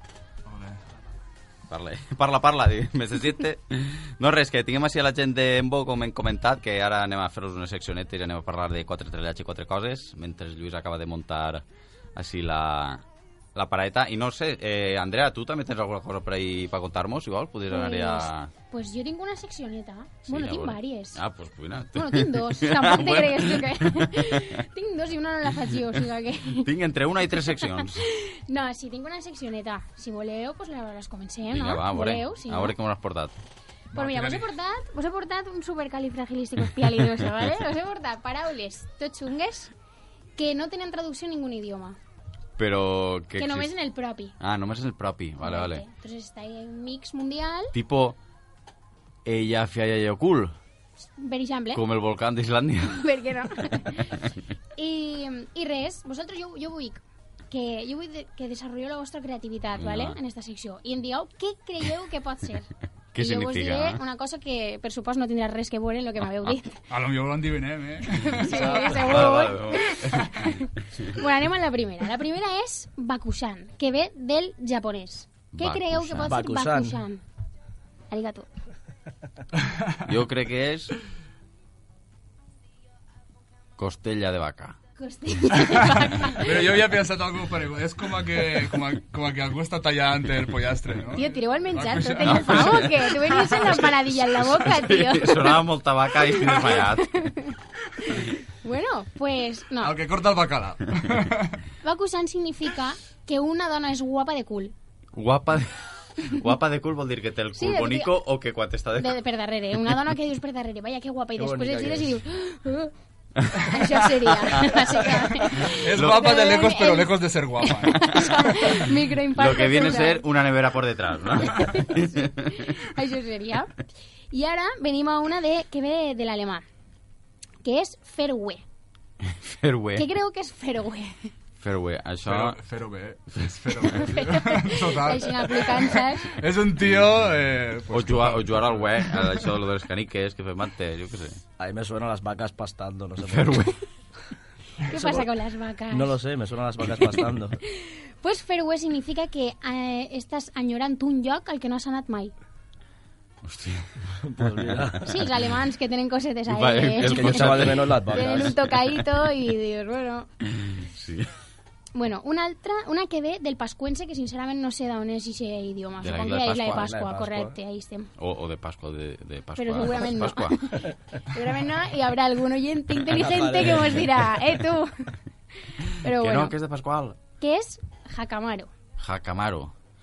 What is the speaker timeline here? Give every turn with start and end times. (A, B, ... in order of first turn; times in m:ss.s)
0:00.5-0:00.8 A
0:01.7-0:11.6 B
0:12.2-0:13.0 B
0:13.5-0:18.5 B
0:17.7-0:21.2 C
0:20.2-0:24.6 B
0:21.9-0:26.7 C
0:26.6-0:28.0 B
0:27.3-0:32.8 C
0:31.5-0:33.3 B
0:33.9-0:39.7 C
0:33.9-0:34.4 A
0:40.4-0:42.0 C
0:42.6-0:43.7 B
0:43.4-0:44.3 C
0:44.4-0:45.8 B
0:45.4-0:47.7 C
0:47.7-0:48.2 B
0:49.2-0:50.5 B
0:51.2-0:51.8 C
0:51.7-0:53.0 B
0:52.9-0:54.2 C
0:54.8-1:06.8 C
0:59.8-1:00.2 B
1:03.1-1:04.0 B
1:06.9-1:09.1 A
1:08.1-1:17.2 C
1:08.5-1:10.2 B
1:10.0-1:10.3 A
1:15.6-1:16.3 B
1:16.2-1:17.0 D
1:18.1-1:18.5 C
1:19.7-1:20.0 A
1:20.0-1:20.9 B
1:23.8-1:24.8 B
1:25.0-1:26.6 C
1:25.7-1:33.1 A
1:31.2-1:37.5 C
1:32.2-1:37.3 B
1:38.1-1:39.9 C
1:39.8-1:41.6 A
1:41.8-1:44.7 C
1:45.1-1:45.7 B
1:46.2-1:49.2 B
1:47.5-1:48.2 C
1:49.0-1:52.9 C
1:51.4-1:52.2 D
1:53.6-2:00.2 C
1:53.6-1:54.8 B
1:55.5-1:58.4 A
1:56.0-1:56.2 B
1:59.3-2:02.7 B
2:01.4-2:03.7 C
2:04.3-2:06.6 C
2:07.6-2:08.6 C
2:09.2-2:10.0 B
2:10.0-2:11.3 C
2:11.6-2:12.6 B
2:12.2-2:19.5 A
2:14.1-2:16.3 C
2:17.9-2:21.4 B
2:21.6-2:23.6 D
2:23.3-2:23.7 B
2:24.8-2:26.2 C
2:25.9-2:27.6 D
2:27.7-2:32.3 C
2:33.4-2:33.9 B
2:34.2-2:35.0 D
2:34.7-2:35.2 B
2:35.0-2:40.3 C
2:36.5-2:38.7 B
2:37.0-2:38.5 D
2:40.6-2:41.3 B
2:41.9-2:48.1 C
2:46.0-2:47.0 B
2:46.8-2:47.6 D
2:48.2-2:50.6 B
2:49.6-2:55.1 C
2:53.0-2:54.2 D
2:56.0-2:56.5 C
2:56.0-2:57.2 B
2:57.4-2:58.7 C
2:59.0-2:59.7 B